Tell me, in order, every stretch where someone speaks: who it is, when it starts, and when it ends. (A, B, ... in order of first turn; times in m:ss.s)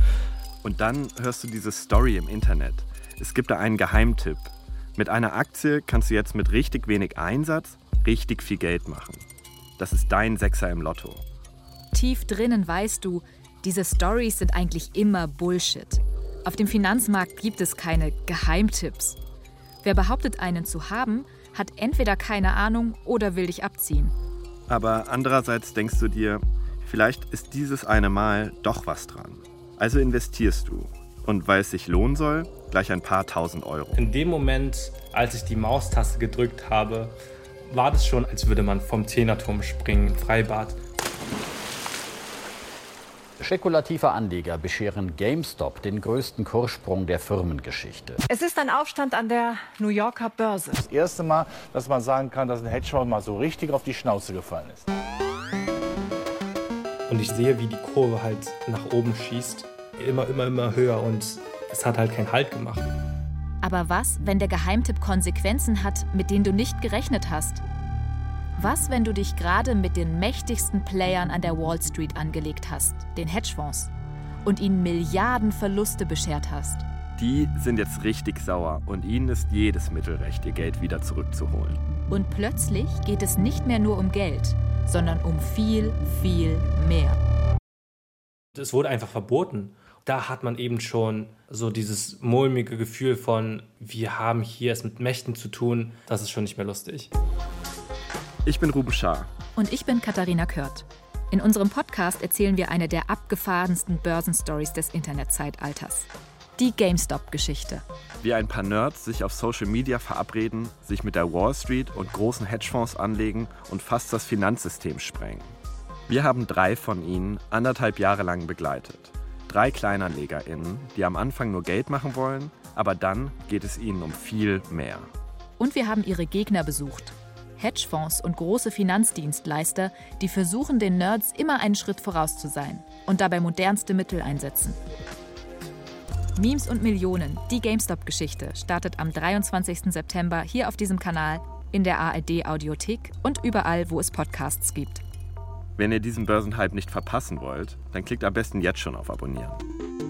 0:00.6-0:09.2 A
0:09.8-0:11.2 A
0:11.9-0:19.2 B
0:19.8-0:24.1 B
0:24.7-0:34.0 A
0:33.9-0:40.8 C
0:43.4-0:48.2 D
0:48.3-0:50.8 E
0:50.8-0:54.9 F
0:57.1-1:02.9 C
1:03.6-1:07.6 B
1:08.6-1:13.9 B
1:14.4-1:16.8 B
1:17.2-1:21.8 A
1:22.1-1:27.2 B
1:28.5-1:37.1 C
1:38.4-1:39.3 A
1:39.6-1:47.8 B
1:48.2-1:55.5 A
1:56.1-2:05.1 A
2:05.6-2:14.8 B
2:16.4-2:25.0 B
2:25.8-2:29.6 A